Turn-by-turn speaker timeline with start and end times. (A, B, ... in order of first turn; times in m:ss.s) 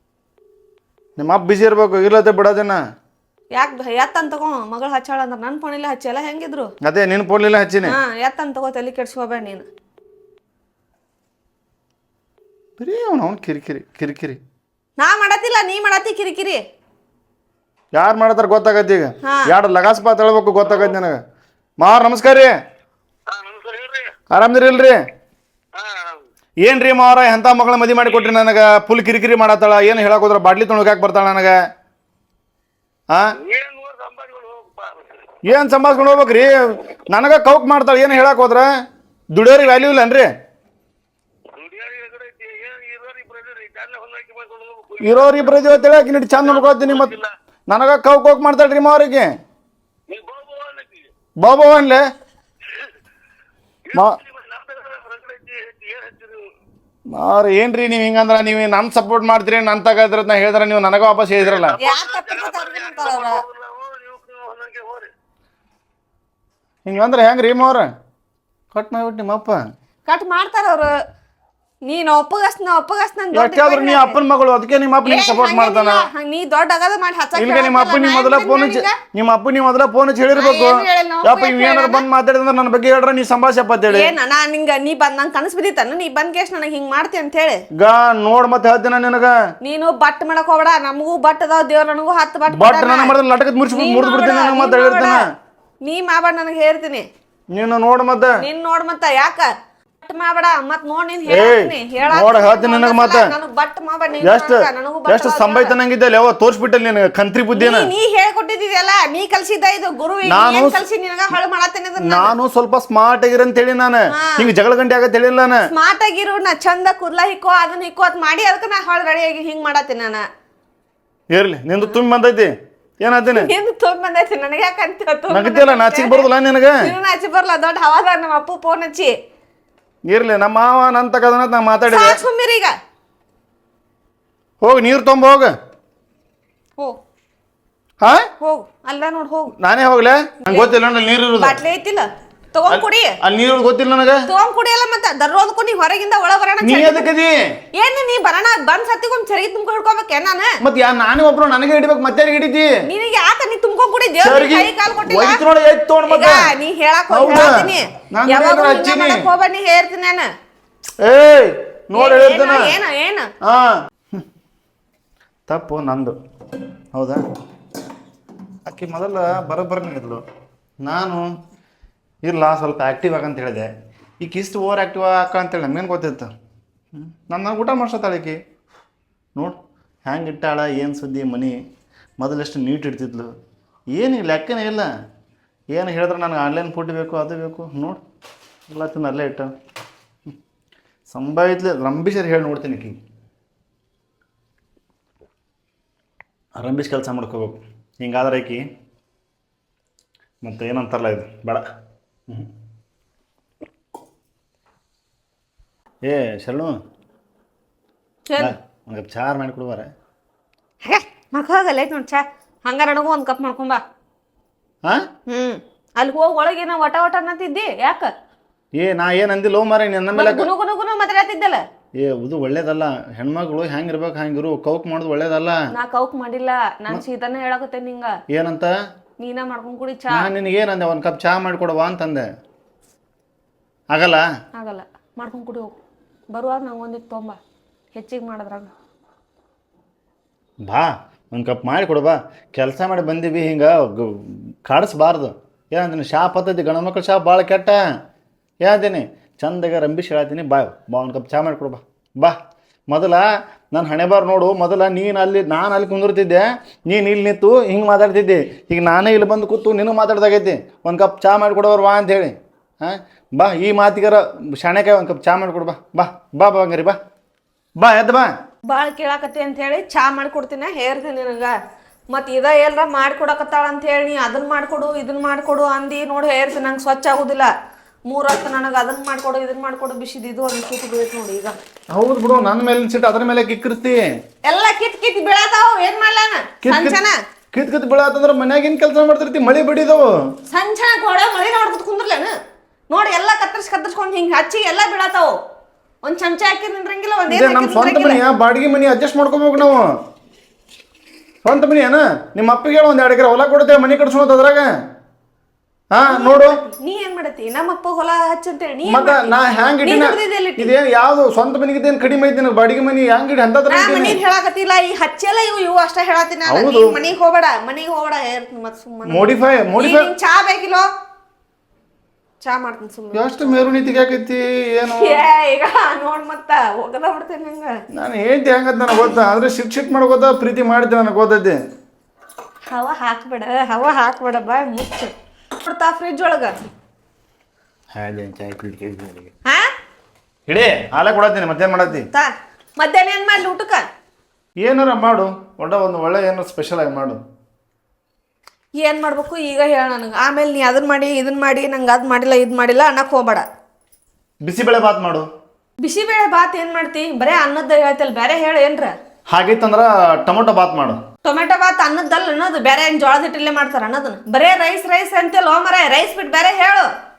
0:01.2-0:02.8 A
0:03.5-0:06.7 B
0:06.8-0:08.0 A
0:07.8-0:09.7 B
0:12.8-0:14.4 A
0:15.0-0:16.6 B
0:17.9-0:21.2 A
0:19.2-0:19.5 B
0:21.8-0:22.5 A
0:23.3-0:24.2 C
0:24.3-0:25.0 A
0:25.7-0:26.2 C
0:26.6-0:31.6 A
0:33.4-0:35.2 C
0:35.4-0:38.7 A
0:39.3-0:40.3 A
0:41.5-0:47.3 C
0:45.0-0:47.2 A
0:47.7-0:49.3 A
0:50.1-0:51.1 C
0:51.4-0:52.0 A
0:53.8-0:56.5 C
0:53.9-0:54.2 A
0:57.1-1:01.8 A
1:01.4-1:05.1 C
1:01.8-1:03.4 B
1:06.8-1:07.9 A
1:08.7-1:09.6 A
1:10.1-1:10.9 B
1:11.8-1:14.2 B
1:13.3-1:16.1 A
1:15.0-1:19.0 B
1:17.3-1:24.1 A
1:20.3-1:22.0 B
1:23.9-1:27.6 B
1:27.8-1:29.4 A
1:29.6-1:33.2 B
1:32.5-1:35.2 A
1:33.7-1:35.2 B
1:35.8-1:37.1 B
1:37.5-1:38.4 A
1:38.4-1:39.5 B
1:40.0-1:45.8 B
1:41.3-1:43.3 A
1:44.2-1:47.9 A
1:47.5-1:52.3 B
1:50.2-1:50.8 A
1:52.0-1:55.7 A
1:54.1-1:54.5 B
1:55.7-2:00.3 B
2:01.3-2:03.5 A
2:03.3-2:09.2 B
2:05.3-2:06.9 A
2:10.1-2:12.2 A
2:11.9-2:12.8 B
2:14.6-2:15.5 A
2:18.0-2:18.3 A
2:18.4-2:19.5 B
2:19.6-2:21.6 A
2:20.4-2:20.7 B
2:21.4-2:23.2 B
2:22.7-2:24.3 A
2:24.3-2:27.1 B
2:26.6-2:27.4 A
2:27.7-2:30.6 B
2:30.6-2:32.8 A
2:32.8-2:35.4 B
2:34.2-2:36.5 A
2:36.1-2:40.3 B
2:37.1-2:39.3 A
2:41.0-2:42.8 A
2:42.0-2:43.3 B
2:43.4-2:44.2 A
2:45.5-2:46.2 A
2:46.9-2:47.2 A
2:48.6-2:50.2 A
2:50.8-2:51.3 A
2:52.2-2:53.7 A
2:54.2-2:56.3 A
2:56.9-2:58.4 A
2:59.4-3:01.6 A
3:02.2-3:03.3 A
3:03.9-3:04.9 A
3:05.7-3:08.0 A
3:08.7-3:09.5 A
3:11.1-3:13.0 A
3:16.6-3:18.6 A
3:20.4-3:21.6 A
3:26.0-3:26.8 A
3:28.3-3:28.5 B
3:28.4-3:29.9 A
3:30.8-3:33.8 B
3:35.3-3:38.1 B
3:38.8-3:40.5 A
3:40.2-3:41.6 B
3:42.0-3:45.7 A
3:45.7-3:48.2 B
3:48.3-3:48.7 A
3:49.2-3:50.3 B
3:50.1-3:52.3 A
3:53.9-3:54.3 A
3:54.5-3:55.7 B
3:56.3-3:57.4 B
3:58.0-3:58.7 B
4:00.6-4:07.8 A
4:08.6-4:12.4 A
4:12.9-4:27.0 A
4:27.8-4:28.3 A
4:28.7-4:31.6 B
4:32.1-4:37.5 B
4:38.1-4:41.6 B
4:41.9-4:44.1 A
4:44.4-4:47.2 B
4:46.6-4:47.0 A
4:47.5-4:50.1 A
4:50.5-4:52.4 B
4:52.9-4:55.4 B
4:56.0-4:58.2 B
4:57.3-4:59.9 A
5:01.4-5:04.7 A
5:05.9-5:06.6 A
5:06.0-5:10.7 B
5:08.8-5:14.2 A
5:13.7-5:20.9 B
5:16.5-5:17.0 A
5:19.1-5:20.1 A
5:22.4-5:23.8 B
5:23.1-5:25.2 A
5:24.9-5:27.8 B
5:27.9-5:31.6 A
5:32.7-5:36.6 B
5:37.9-5:39.3 A
5:40.5-5:42.1 A
5:41.9-5:43.8 B
5:44.6-5:47.2 A
5:48.8-5:53.4 B
5:54.4-5:55.3 A
5:55.8-5:58.9 B
5:59.3-6:01.0 A
6:01.2-6:06.9 B